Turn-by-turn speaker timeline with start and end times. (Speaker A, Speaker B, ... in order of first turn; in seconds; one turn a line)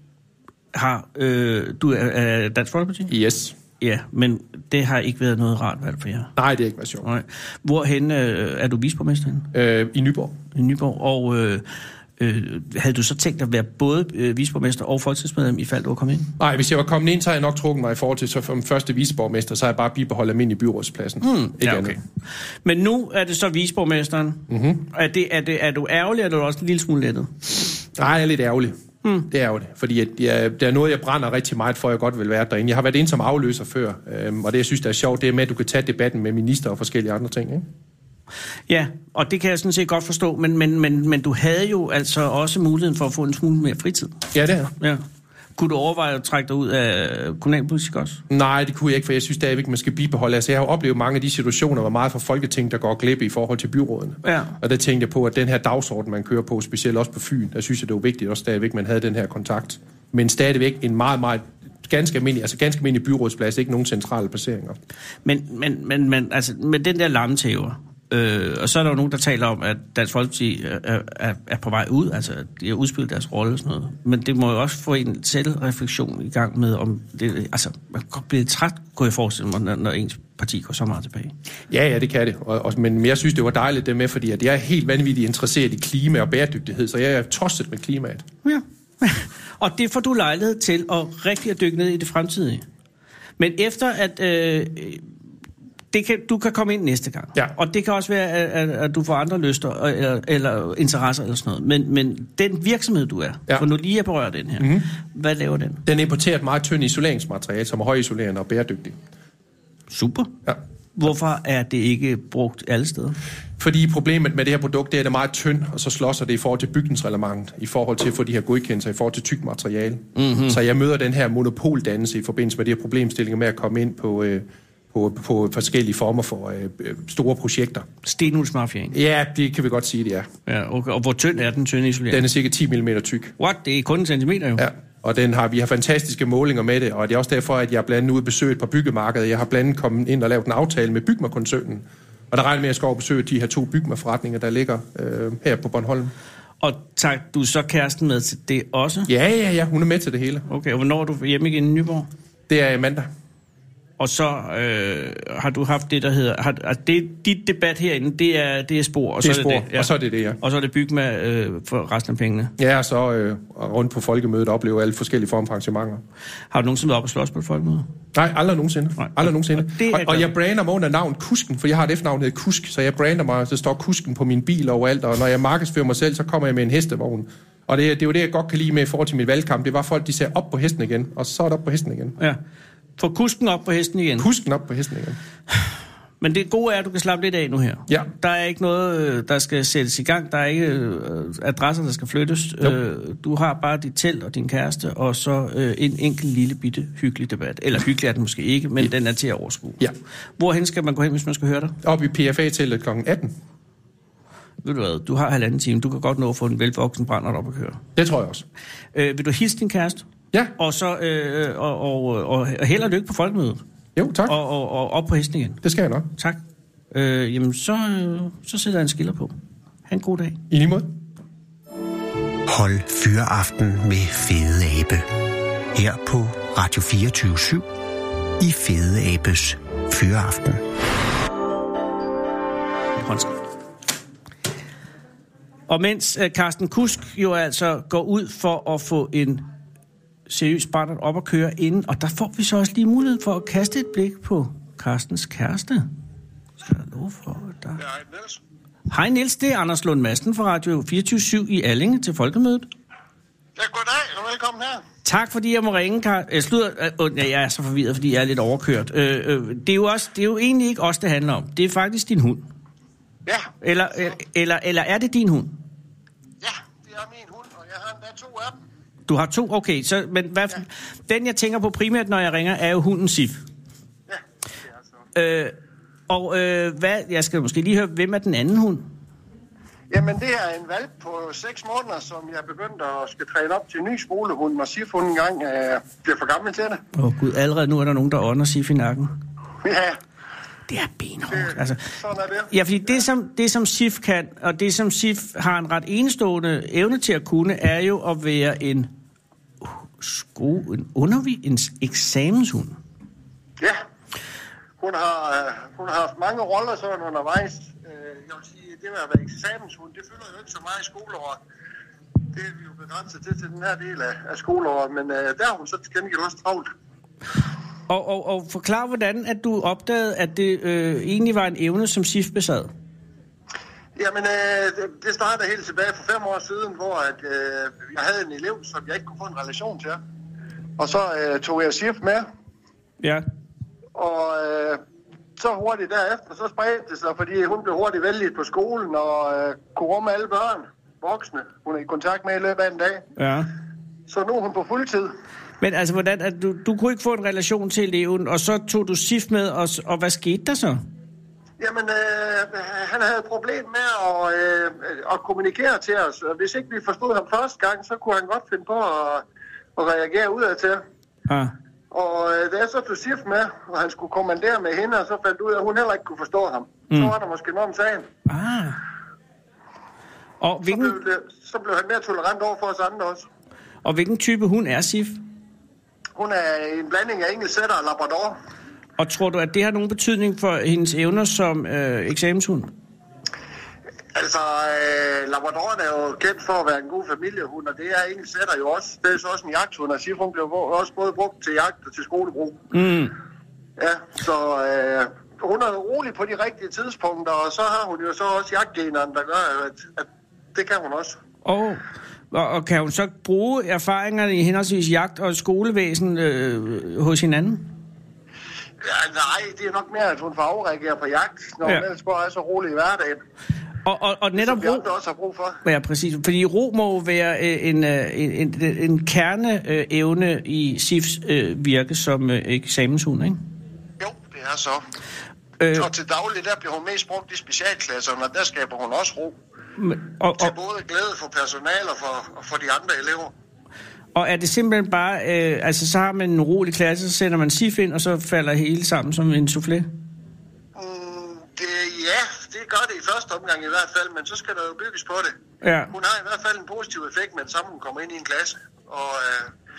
Speaker A: 0.7-3.1
Speaker B: 3.1-3.6
Speaker A: 3.8-6.3
Speaker B: 6.4-7.1
Speaker A: 7.0-9.5
Speaker B: 9.5-10.4
Speaker A: 10.5-11.6
Speaker A: 12.2-16.3
Speaker B: 16.4-22.0
Speaker A: 21.2-22.0
Speaker A: 22.6-27.3
Speaker B: 24.5-24.8
Speaker B: 28.0-37.6
Speaker A: 38.7-44.2
Speaker B: 44.3-44.7
Speaker A: 45.6-48.2
Speaker B: 48.3-64.8
Speaker A: 54.2-54.6
Speaker A: 65.2-81.3
Speaker B: 81.7-88.2
Speaker A: 88.5-92.6
Speaker A: 93.4-95.1
Speaker A: 95.9-105.8
Speaker B: 104.6-104.9
Speaker B: 105.9-109.0
Speaker A: 109.9-110.3
Speaker A: 111.0-113.2
Speaker B: 113.6-127.9
Speaker A: 120.1-120.6
Speaker A: 128.0-129.0
Speaker B: 128.9-130.3
Speaker A: 130.5-132.3
Speaker B: 132.1-133.3
Speaker A: 133.4-134.7
Speaker B: 134.6-146.1
Speaker A: 146.6-149.1
Speaker B: 149.1-150.5
Speaker A: 150.5-152.1
Speaker B: 152.5-153.1
Speaker A: 154.0-162.5
Speaker B: 159.2-160.4
Speaker B: 162.6-166.0
Speaker A: 166.5-167.9
Speaker B: 168.1-182.2
Speaker A: 169.0-170.3
Speaker A: 183.0-184.3
Speaker B: 184.2-185.2
Speaker A: 186.2-199.8
Speaker A: 200.4-201.8
Speaker B: 201.8-203.3
Speaker A: 204.6-207.8
Speaker B: 208.0-208.4
Speaker A: 208.9-210.1
Speaker A: 210.6-213.6
Speaker B: 214.0-214.4
Speaker A: 214.3-215.6
Speaker B: 215.6-216.1
Speaker A: 216.9-219.3
Speaker A: 219.9-220.4
Speaker B: 220.5-220.9
Speaker C: 222.5-225.1
Speaker C: 225.7-227.7
Speaker C: 228.4-230.6
Speaker A: 233.0-233.3
Speaker A: 235.7-239.4
Speaker A: 240.3-245.9
Speaker A: 246.6-247.8
Speaker D: 247.8-248.4
Speaker A: 248.9-252.7
Speaker D: 253.6-254.8
Speaker A: 255.1-262.5
Speaker D: 263.3-264.1
Speaker A: 263.6-265.6
Speaker D: 266.4-268.6
Speaker A: 269.1-273.4
Speaker A: 275.1-275.5
Speaker A: 276.1-278.9
Speaker D: 279.9-286.8
Speaker A: 287.0-289.1
Speaker D: 289.6-290.0
Speaker A: 290.7-291.8
Speaker D: 291.3-293.0
Speaker A: 292.5-298.9
Speaker A: 299.6-302.8
Speaker D: 304.8-311.4
Speaker D: 312.3-316.7
Speaker A: 317.9-322.7
Speaker D: 324.0-330.0
Speaker D: 330.8-332.2
Speaker D: 334.0-334.8
Speaker D: 335.4-343.1
Speaker A: 343.2-343.5
Speaker D: 344.1-345.1
Speaker A: 345.6-350.8
Speaker D: 351.6-359.2
Speaker D: 359.8-360.8
Speaker A: 361.3-361.5
Speaker D: 361.9-368.1
Speaker A: 368.3-368.8
Speaker A: 370.4-370.9
Speaker D: 370.6-373.3
Speaker A: 373.8-375.2
Speaker D: 376.1-378.4
Speaker A: 379.0-382.7
Speaker D: 384.1-392.7
Speaker A: 392.7-393.1
Speaker D: 393.8-401.2
Speaker A: 401.4-407.7
Speaker D: 408.8-413.2
Speaker A: 413.9-414.9
Speaker D: 414.4-415.6
Speaker A: 415.6-423.4
Speaker D: 424.0-424.8
Speaker A: 425.6-425.9
Speaker D: 425.7-429.4
Speaker A: 429.8-430.5
Speaker D: 430.4-433.3
Speaker A: 434.1-439.9
Speaker D: 440.8-445.4
Speaker A: 445.6-445.9
Speaker D: 445.9-449.5